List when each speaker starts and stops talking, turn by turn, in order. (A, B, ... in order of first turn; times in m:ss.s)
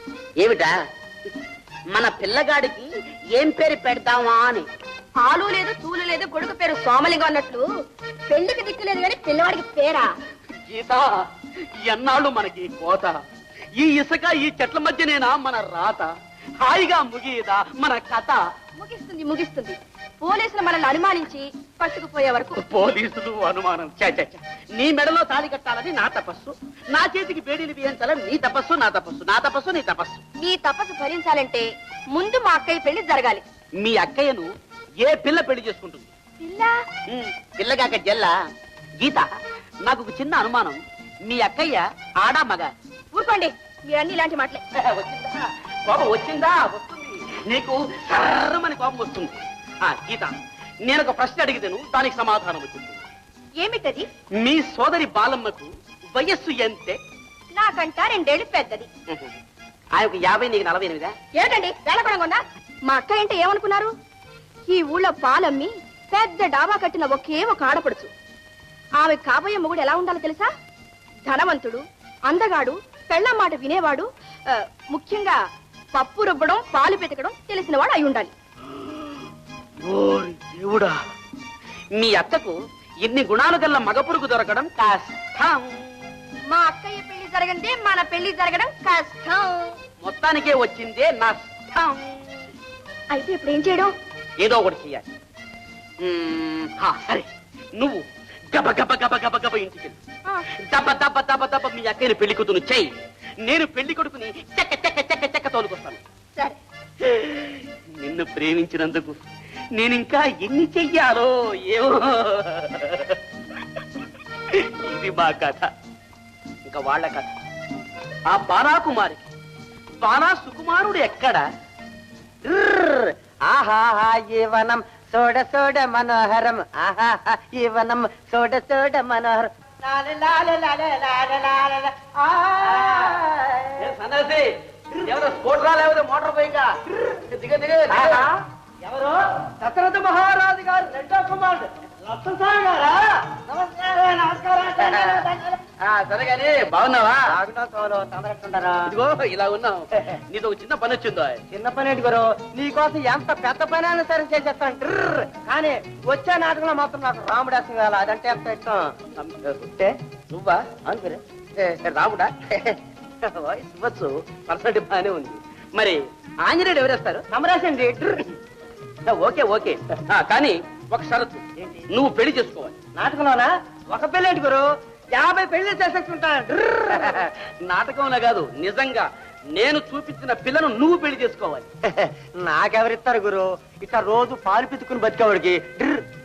0:00.4-0:00.8 A
0:01.9-0:04.7 A
0:05.2-0:07.7 B
0:08.3-0:10.2 B
0:10.7-0:11.2 A
0:11.8-0:13.2 A
0:13.8-0:18.4 A
0:18.8-0:22.6 B
0:22.6-0:30.2 A
0:30.4-0:33.4 B
0:33.8-0:34.5 A
0:35.0-0:36.1 A
0:36.4-0:36.7 B
0:37.1-0:38.4 A
0:39.9-0:42.7 A
0:43.1-0:44.6 B
0:44.8-0:53.0 A
0:53.6-0:54.1 B
0:54.4-0:57.0 A
0:57.5-0:58.9 B
1:00.0-1:01.2 A
1:01.3-1:03.9 B
1:04.7-1:08.1 B
1:09.0-1:10.5 B
1:11.3-1:15.4 B
1:15.9-1:18.3 B
1:18.8-1:19.2 A
1:19.8-1:21.0 A
1:21.9-1:26.0 A
1:26.5-1:29.8 B
1:30.0-1:32.4 A
1:33.1-1:33.9 B
1:34.4-1:35.1 A
1:36.0-1:40.0 A
1:40.6-1:42.9 A
1:43.4-1:46.0 A
1:47.0-1:49.2 A
1:49.8-1:53.8 A
1:54.5-1:55.7 A
1:56.7-1:57.3 A
1:58.3-1:59.3 A
2:00.0-2:01.4 A
2:02.4-2:13.8 C
2:12.7-2:13.2 A
2:13.8-2:18.3 A
2:17.9-2:18.3 C
2:18.8-2:25.6 C
2:24.8-2:25.2 A
2:25.8-2:27.3 A
2:27.3-2:29.0 C
2:28.9-2:31.4 A
2:31.5-2:38.9 C
2:39.2-2:39.7 A
2:40.3-2:40.7 A
2:40.8-2:41.2 C
2:41.6-2:47.3 A
2:47.3-2:48.3 C
2:49.1-2:52.8 A
2:53.0-2:57.3 C
2:57.0-3:01.7 A
3:01.9-3:06.0 C